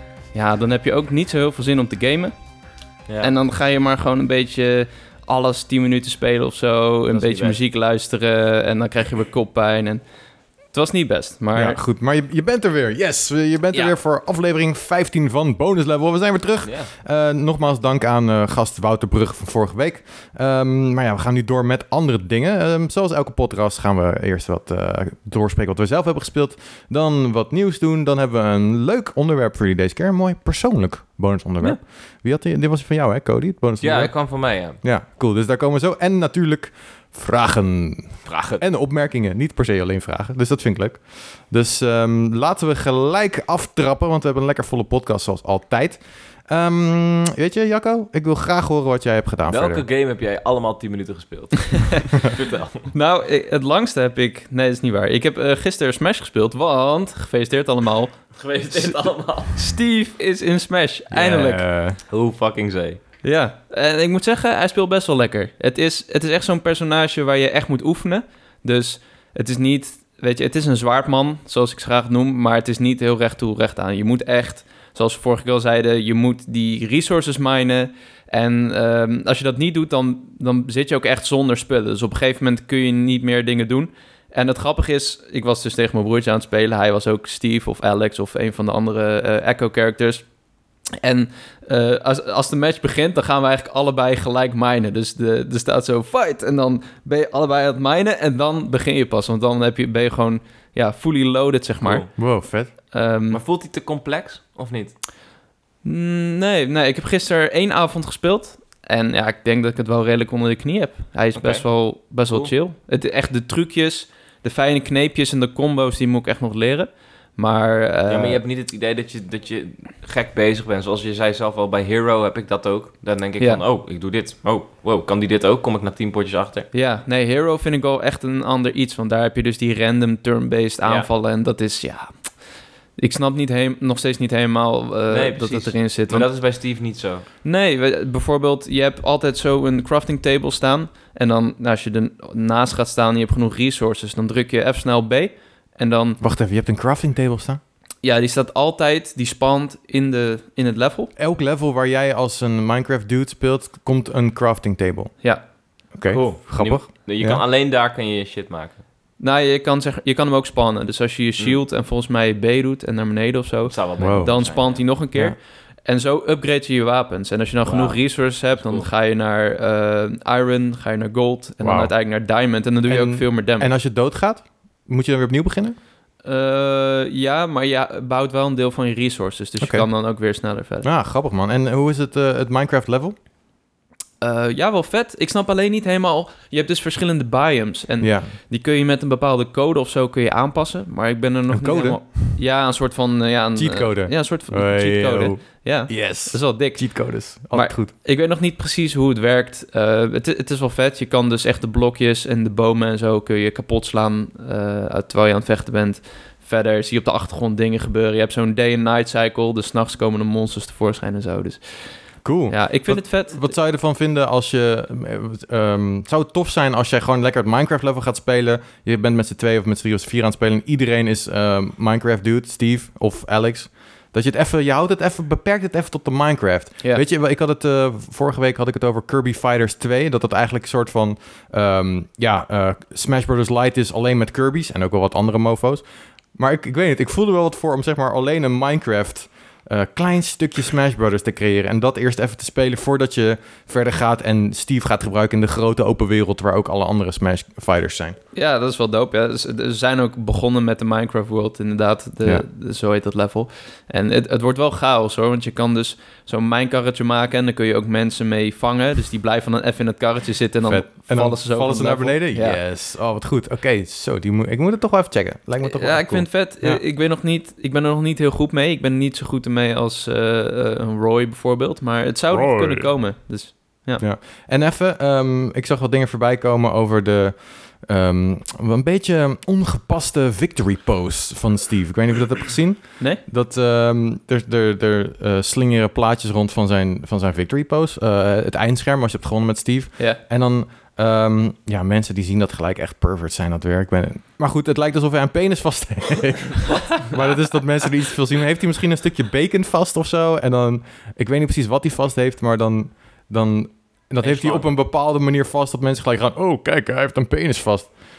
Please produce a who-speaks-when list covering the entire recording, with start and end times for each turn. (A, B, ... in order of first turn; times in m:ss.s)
0:00.3-0:02.4 A
0:03.2-0:10.0 A
0:07.1-0:07.6 B
0:10.7-0:11.8 A
0:11.5-0:49.8 C
0:16.6-0:16.9 B
0:33.8-0:34.8 B
0:38.3-0:38.6 B
0:49.5-0:52.9 B
0:52.9-0:59.0 A
0:58.3-0:59.6 B
0:59.5-1:01.6 A
1:01.1-1:02.0 C
1:02.1-1:03.0 B
1:03.2-1:30.3 A
1:31.0-1:42.1 A
1:41.8-1:42.1 B
1:42.2-1:42.7 C
1:42.9-1:43.4 A
1:43.3-1:45.0 B
1:45.8-1:58.4 A
1:51.4-1:51.7 B
1:52.2-1:52.5 B
1:58.1-2:06.7 B
2:06.7-2:12.3 A
2:10.8-2:11.1 B
2:13.0-2:16.3 A
2:15.1-2:17.3 B
2:17.4-2:26.2 A
2:26.2-2:27.6 C
2:28.0-2:31.1 A
2:31.2-2:35.2 C
2:35.9-2:37.4 C
2:36.1-2:38.8 B
2:39.2-2:53.7 A
2:43.7-2:44.8 B
2:44.0-2:44.4 C
2:47.6-2:48.9 B
2:51.6-2:52.0 C
2:52.9-2:55.8 C
2:56.2-3:00.9 A
2:59.6-2:59.9 C
3:00.8-3:03.2 C
3:04.2-3:31.9 A
3:08.0-3:08.3 C
3:11.5-3:12.4 C
3:13.6-3:17.9 C
3:32.2-3:55.8 C
3:32.5-3:33.5 A
3:56.4-4:08.2 C
4:08.4-4:22.6 A
4:20.7-4:26.8 C
4:25.6-4:34.0 A
4:32.3-4:32.9 C
4:34.0-5:08.0 C
4:56.7-4:57.2 B
5:04.2-5:04.7 B